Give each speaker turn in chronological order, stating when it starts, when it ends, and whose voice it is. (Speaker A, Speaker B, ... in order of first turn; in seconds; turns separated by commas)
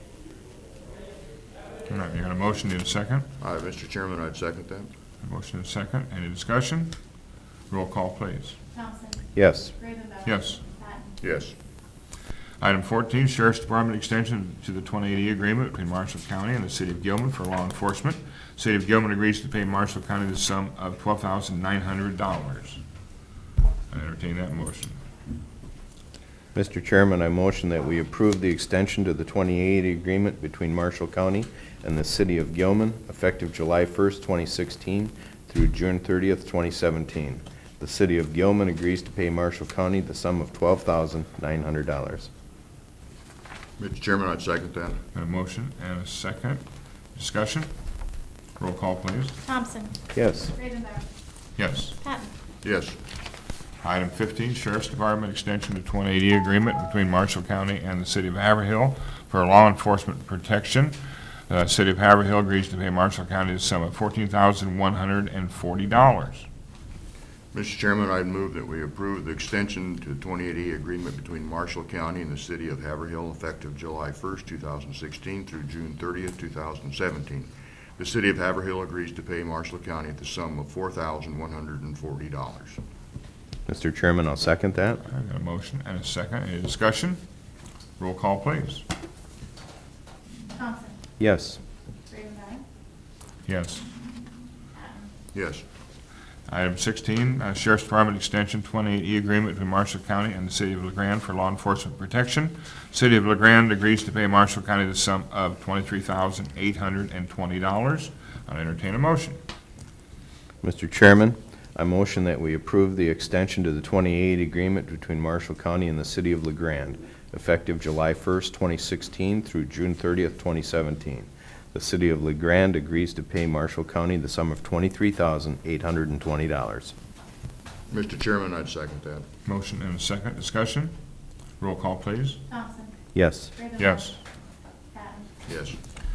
Speaker A: 1.9-3.3, Speaker B: 3.4-4.9, Speaker A: 5.2-7.0, Speaker A: 7.7-8.6, Speaker C: 8.8-9.2, Speaker D: 9.3-9.8, Speaker C: 9.8-10.3, Speaker A: 10.2-10.6, Speaker C: 10.8-11.2, Speaker B: 11.2-11.5, Speaker A: 12.6-22.8, Speaker A: 23.9-25.0, Speaker D: 26.5-42.3, Speaker B: 43.8-45.0, Speaker A: 45.1-46.6, Speaker A: 47.1-47.7, Speaker A: 48.6-49.4, Speaker C: 49.5-50.0, Speaker D: 50.1-50.5, Speaker C: 50.6-51.0, Speaker A: 51.6-52.0, Speaker C: 52.0-52.3, Speaker B: 52.6-53.0, Speaker A: 53.8-61.0, Speaker A: 61.5-66.5, Speaker B: 67.5-82.8, Speaker D: 83.7-85.0, Speaker A: 85.1-87.2, Speaker A: 88.0-88.8, Speaker C: 90.5-91.0, Speaker D: 91.2-91.6, Speaker C: 92.1-92.6, Speaker A: 93.5-93.9, Speaker B: 95.3-95.6, Speaker A: 96.5-109.4, Speaker D: 110.6-126.9, Speaker B: 127.9-129.2, Speaker A: 129.4-130.9, Speaker A: 131.6-132.4, Speaker C: 132.5-132.9, Speaker D: 133.1-133.6, Speaker C: 133.6-134.1, Speaker A: 133.8-134.2, Speaker C: 134.9-135.3, Speaker B: 135.4-135.8